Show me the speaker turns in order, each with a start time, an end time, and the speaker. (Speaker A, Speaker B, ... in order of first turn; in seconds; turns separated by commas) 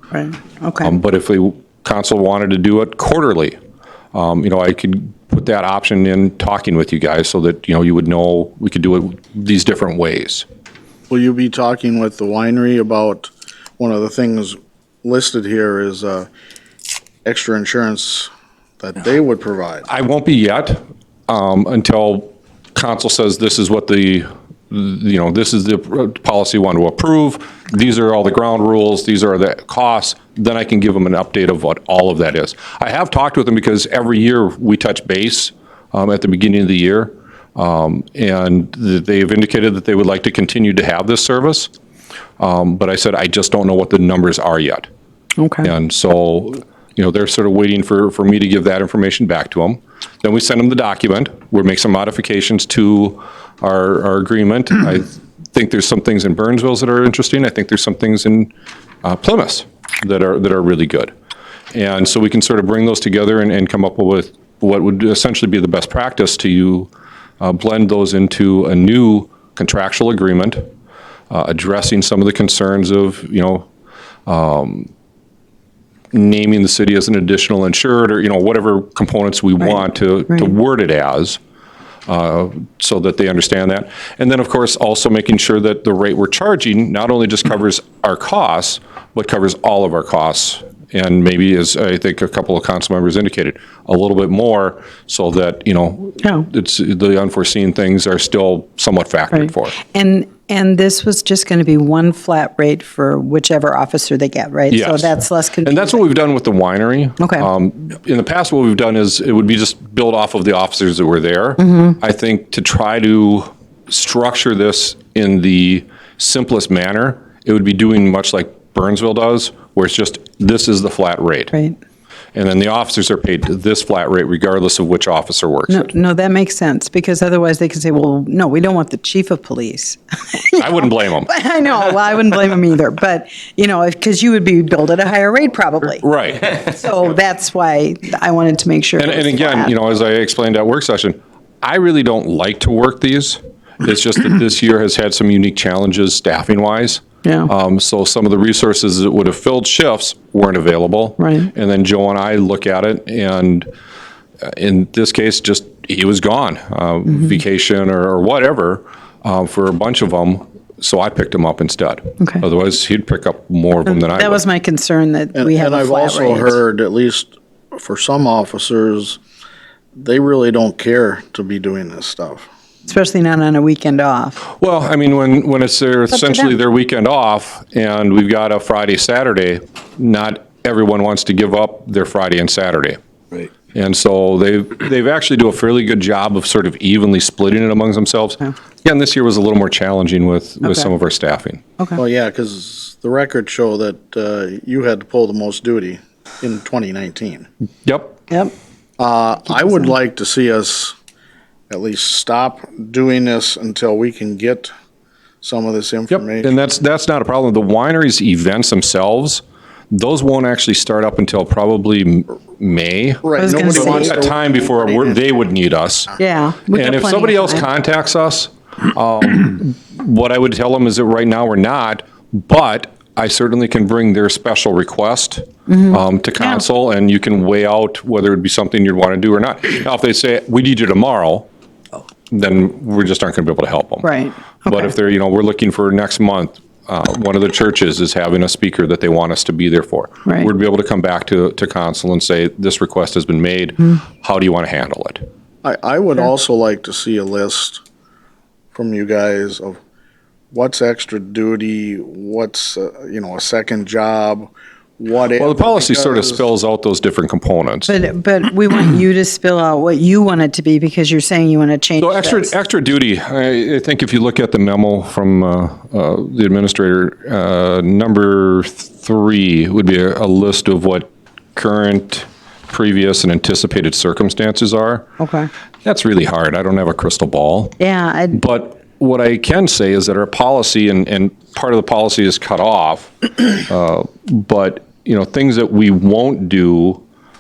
Speaker A: 0.1-0.9, Speaker B: 0.8-3.6, Speaker B: 4.1-10.5, Speaker C: 11.1-16.3, Speaker C: 17.2-18.3, Speaker C: 18.8-19.9, Speaker B: 19.9-41.7, Speaker B: 42.4-44.9, Speaker A: 45.4-45.7, Speaker B: 45.6-58.5, Speaker B: 59.0-61.1, Speaker B: 61.7-66.9, Speaker B: 67.4-70.6, Speaker B: 71.3-73.7, Speaker B: 74.3-74.9, Speaker B: 76.1-81.4, Speaker B: 82.1-99.8, Speaker A: 99.4-106.0, Speaker B: 104.7-121.5, Speaker A: 107.2-107.5, Speaker A: 111.6-112.0, Speaker B: 122.3-125.9, Speaker A: 125.7-136.1, Speaker B: 130.6-131.3, Speaker B: 135.9-136.8, Speaker A: 136.6-139.7, Speaker B: 139.0-153.7, Speaker A: 147.2-147.5, Speaker A: 151.2-151.5, Speaker B: 154.4-164.4, Speaker A: 163.9-166.6, Speaker C: 165.3-169.2, Speaker C: 170.0-172.5, Speaker A: 172.9-174.4, Speaker B: 174.4-183.0, Speaker B: 183.7-191.6, Speaker C: 192.0-197.5, Speaker B: 197.8-198.2, Speaker C: 199.0-200.9, Speaker C: 201.7-204.7, Speaker C: 205.4-206.5, Speaker B: 206.1-216.2, Speaker C: 213.2-215.2, Speaker A: 213.4-214.2, Speaker A: 216.2-217.7, Speaker B: 216.7-231.5, Speaker A: 225.7-226.6, Speaker B: 232.3-234.1, Speaker A: 234.0-234.9, Speaker B: 234.7-245.2, Speaker C: 245.6-247.8, Speaker C: 248.7-249.8, Speaker C: 250.5-256.5, Speaker B: 255.4-257.9, Speaker A: 257.9-262.5, Speaker B: 262.0-275.1, Speaker A: 275.2-275.5, Speaker B: 275.9-277.8, Speaker A: 277.8-278.4, Speaker B: 278.3-287.0